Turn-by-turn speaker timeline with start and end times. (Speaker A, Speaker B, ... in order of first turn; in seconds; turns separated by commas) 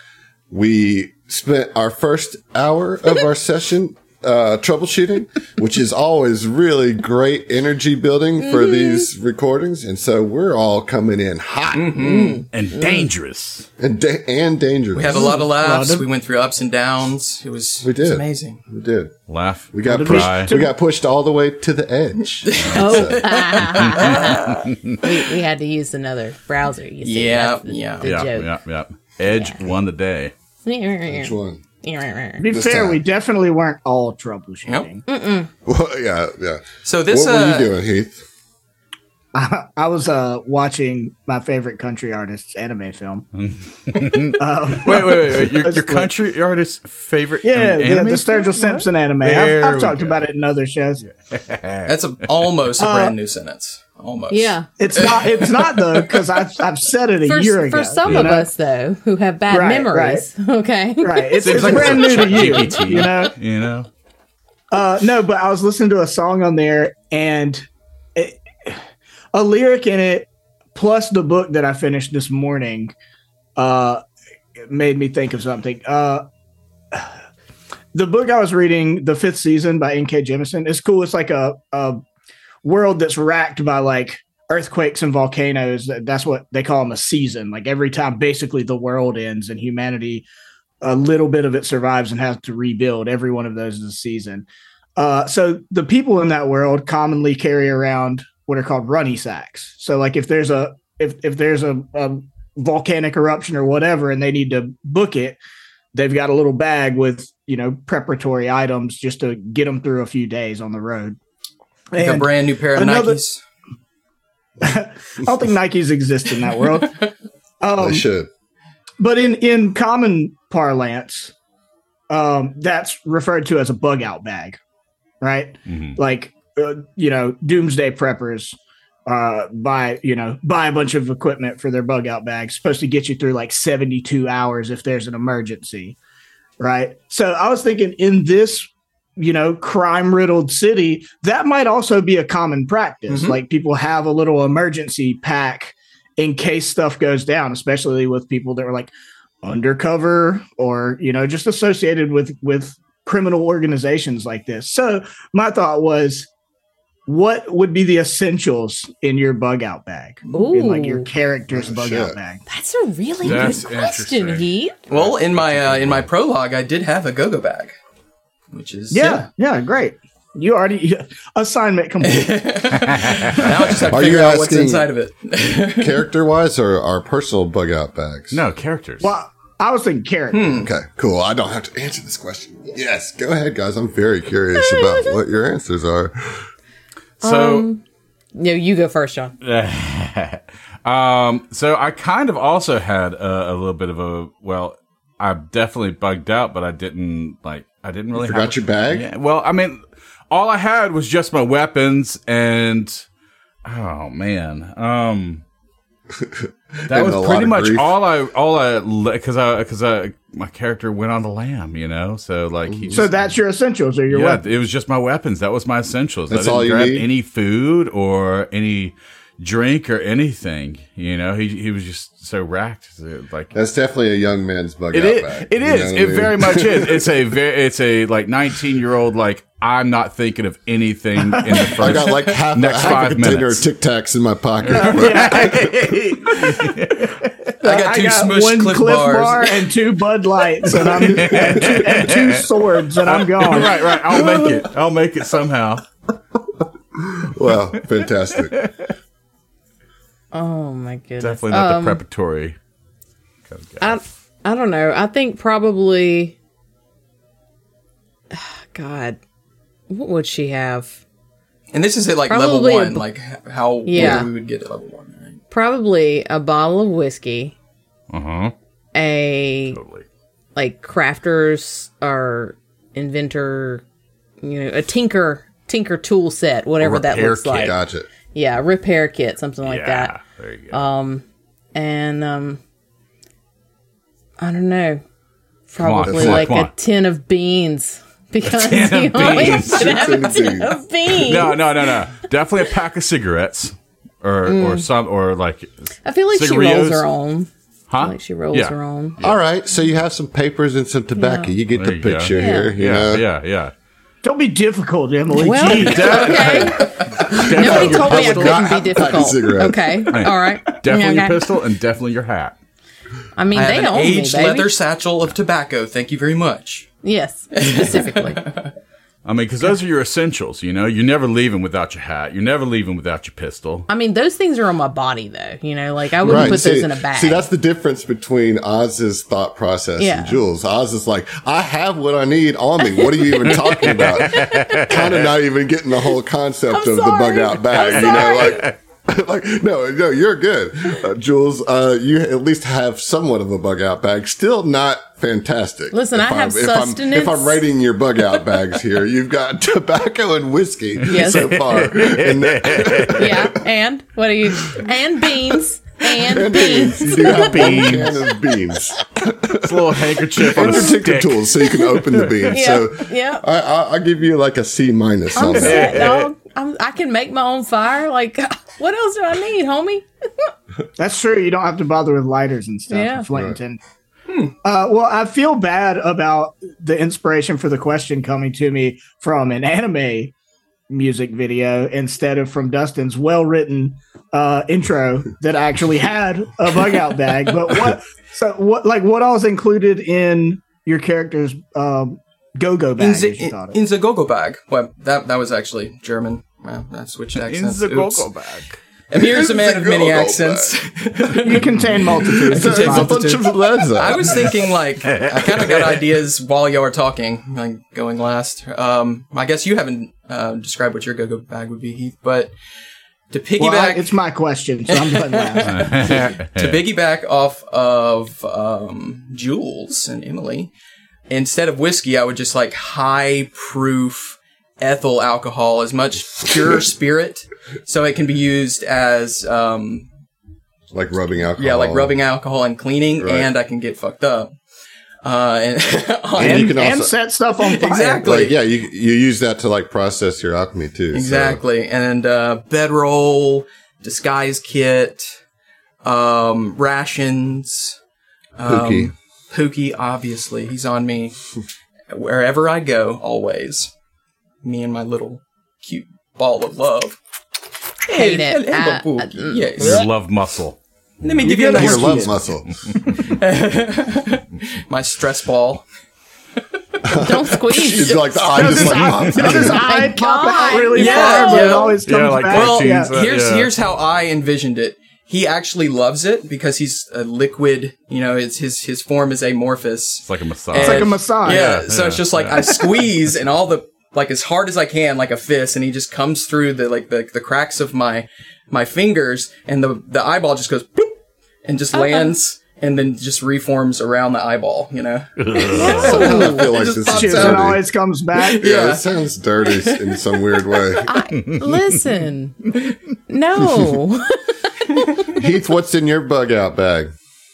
Speaker A: 0.5-12.2, Speaker B: 8.4-9.1, Speaker C: 11.7-12.4, Speaker B: 12.0-13.0, Speaker D: 12.5-13.7, Speaker A: 13.8-15.3, Speaker C: 14.9-18.6, Speaker E: 15.1-16.0, Speaker A: 17.8-19.2, Speaker D: 19.3-20.5, Speaker A: 19.7-23.2, Speaker E: 19.9-20.7, Speaker C: 22.4-24.6, Speaker B: 22.7-28.5, Speaker D: 23.6-25.0, Speaker C: 27.0-28.1, Speaker D: 28.0-30.3, Speaker B: 29.3-29.6, Speaker B: 30.6-32.5, Speaker A: 31.1-31.6, Speaker E: 32.4-35.0, Speaker A: 32.5-33.0, Speaker B: 35.1-35.5, Speaker A: 35.6-38.2, Speaker C: 36.8-37.7, Speaker E: 39.3-43.3, Speaker D: 43.3-48.4, Speaker E: 43.9-46.2, Speaker E: 47.4-51.0, Speaker B: 48.4-48.9, Speaker D: 49.2-50.2, Speaker D: 51.0-51.9, Speaker C: 51.9-56.4, Speaker E: 52.8-53.1, Speaker B: 54.3-54.7, Speaker E: 54.8-58.5, Speaker B: 57.2-61.9, Speaker D: 58.0-58.3, Speaker E: 59.5-60.2, Speaker E: 61.0-63.3, Speaker D: 61.4-63.9, Speaker E: 64.7-68.8, Speaker E: 69.3-72.9, Speaker E: 73.6-74.0, Speaker E: 74.7-76.2, Speaker E: 77.9-82.0, Speaker E: 82.6-90.2, Speaker E: 90.8-105.4, Speaker E: 105.9-111.2, Speaker E: 111.9-113.2, Speaker C: 112.0-113.4, Speaker E: 114.6-117.0, Speaker E: 117.6-118.0, Speaker A: 117.8-118.3, Speaker E: 119.0-121.3, Speaker E: 122.1-124.6, Speaker E: 125.2-135.9, Speaker D: 125.7-126.0, Speaker E: 136.6-148.9, Speaker C: 143.1-143.4, Speaker E: 149.4-156.3, Speaker E: 157.1-162.4, Speaker B: 160.3-161.1, Speaker A: 161.5-162.2, Speaker B: 162.5-164.8, Speaker D: 163.2-166.0, Speaker C: 164.9-167.7, Speaker C: 168.5-169.2, Speaker E: 168.9-172.4, Speaker C: 172.0-176.0, Speaker D: 172.9-173.5, Speaker A: 173.9-174.9, Speaker A: 175.8-178.4, Speaker D: 178.3-179.1, Speaker E: 179.0-180.6, Speaker C: 180.3-180.7, Speaker A: 180.6-186.4, Speaker B: 184.6-185.1, Speaker D: 187.2-187.7, Speaker B: 187.2-187.8, Speaker B: 188.3-189.3, Speaker D: 189.4-203.0, Speaker A: 198.2-199.1, Speaker D: 203.6-205.4, Speaker A: 206.1-207.9, Speaker D: 206.9-213.1, Speaker A: 212.7-213.1, Speaker E: 212.9-214.4, Speaker D: 214.1-223.5, Speaker A: 216.3-217.1, Speaker A: 223.5-227.1, Speaker D: 224.9-233.6, Speaker E: 231.3-231.7, Speaker A: 231.7-235.6, Speaker D: 234.6-237.3, Speaker E: 234.7-236.7, Speaker E: 237.6-244.7, Speaker C: 237.6-239.7, Speaker D: 240.9-242.4, Speaker D: 243.0-245.8, Speaker A: 246.9-248.6, Speaker D: 248.4-248.9, Speaker B: 250.3-252.0, Speaker D: 251.2-252.6, Speaker D: 253.5-254.0, Speaker B: 253.8-256.4, Speaker B: 258.3-259.2, Speaker B: 259.9-260.9, Speaker C: 261.7-265.4, Speaker B: 262.3-263.0, Speaker B: 263.9-264.3, Speaker A: 264.0-264.2, Speaker B: 265.5-267.5, Speaker D: 268.1-268.5, Speaker B: 268.9-269.8, Speaker D: 269.7-270.0, Speaker B: 270.5-273.8, Speaker B: 274.4-277.8, Speaker D: 276.8-277.7, Speaker A: 277.5-278.1, Speaker B: 278.3-280.1, Speaker D: 279.6-280.9, Speaker B: 280.7-282.6, Speaker B: 284.4-285.0, Speaker B: 285.7-291.7, Speaker D: 285.8-286.7, Speaker A: 286.1-286.5, Speaker D: 288.4-290.4, Speaker A: 289.3-290.8, Speaker D: 291.1-297.1, Speaker B: 294.4-294.9, Speaker B: 296.0-299.2, Speaker D: 297.9-299.4, Speaker A: 299.2-303.2, Speaker B: 301.2-301.6, Speaker D: 301.7-303.7, Speaker B: 302.3-302.7, Speaker E: 304.2-306.6, Speaker B: 305.3-311.5, Speaker D: 305.5-309.1, Speaker C: 306.8-307.1, Speaker A: 307.5-310.1, Speaker D: 310.1-312.6, Speaker B: 313.3-314.7, Speaker C: 313.5-316.9, Speaker B: 317.0-318.5, Speaker C: 317.5-318.7, Speaker D: 319.2-323.9, Speaker B: 323.9-327.5, Speaker A: 326.2-353.5, Speaker B: 330.0-330.4, Speaker B: 332.9-334.9, Speaker D: 333.9-335.3, Speaker B: 336.7-338.7, Speaker B: 345.9-347.6, Speaker B: 351.1-351.6, Speaker D: 351.2-353.3, Speaker B: 353.1-358.1, Speaker A: 356.1-366.0, Speaker D: 357.2-358.2, Speaker D: 359.5-362.6, Speaker B: 362.5-363.4, Speaker B: 365.4-370.5, Speaker D: 365.4-366.3, Speaker E: 371.0-373.8, Speaker B: 372.9-373.3, Speaker A: 373.3-373.6, Speaker C: 374.3-374.5, Speaker E: 374.6-380.3, Speaker E: 380.9-393.8, Speaker C: 393.0-398.3, Speaker D: 397.4-398.8, Speaker C: 399.1-412.5, Speaker A: 399.1-400.7, Speaker E: 401.4-403.1, Speaker A: 402.2-404.5, Speaker D: 405.1-405.9, Speaker C: 413.3-414.1, Speaker E: 413.6-416.2, Speaker C: 414.9-420.7, Speaker D: 415.7-416.8, Speaker C: 421.3-430.1, Speaker A: 430.9-432.1, Speaker C: 431.6-434.5, Speaker A: 433.2-433.5, Speaker C: 435.2-436.9, Speaker A: 436.3-437.1, Speaker E: 436.4-438.3, Speaker C: 437.6-438.6, Speaker A: 438.2-441.6, Speaker C: 441.1-445.3, Speaker C: 446.0-448.0, Speaker C: 448.6-451.4, Speaker A: 448.6-449.1, Speaker C: 452.1-453.9, Speaker C: 454.6-457.2, Speaker C: 458.1-460.1, Speaker B: 458.1-459.6, Speaker D: 459.8-460.8, Speaker C: 461.2-462.3, Speaker E: 461.4-462.4, Speaker A: 461.7-462.7, Speaker D: 462.8-463.2, Speaker C: 463.1-465.8, Speaker A: 467.0-469.8, Speaker B: 467.1-471.9, Speaker E: 468.6-473.1, Speaker C: 468.6-469.1, Speaker C: 470.9-491.1, Speaker D: 472.0-473.7, Speaker D: 480.2-482.8, Speaker E: 480.8-481.8, Speaker C: 491.6-497.8, Speaker B: 491.9-492.3, Speaker D: 495.4-496.1, Speaker B: 495.8-496.6, Speaker A: 495.8-497.8, Speaker E: 496.1-498.6, Speaker C: 498.3-499.1, Speaker A: 498.6-501.1, Speaker C: 499.6-501.0, Speaker B: 501.1-502.8, Speaker D: 501.3-501.9, Speaker B: 503.3-505.0, Speaker A: 505.2-507.1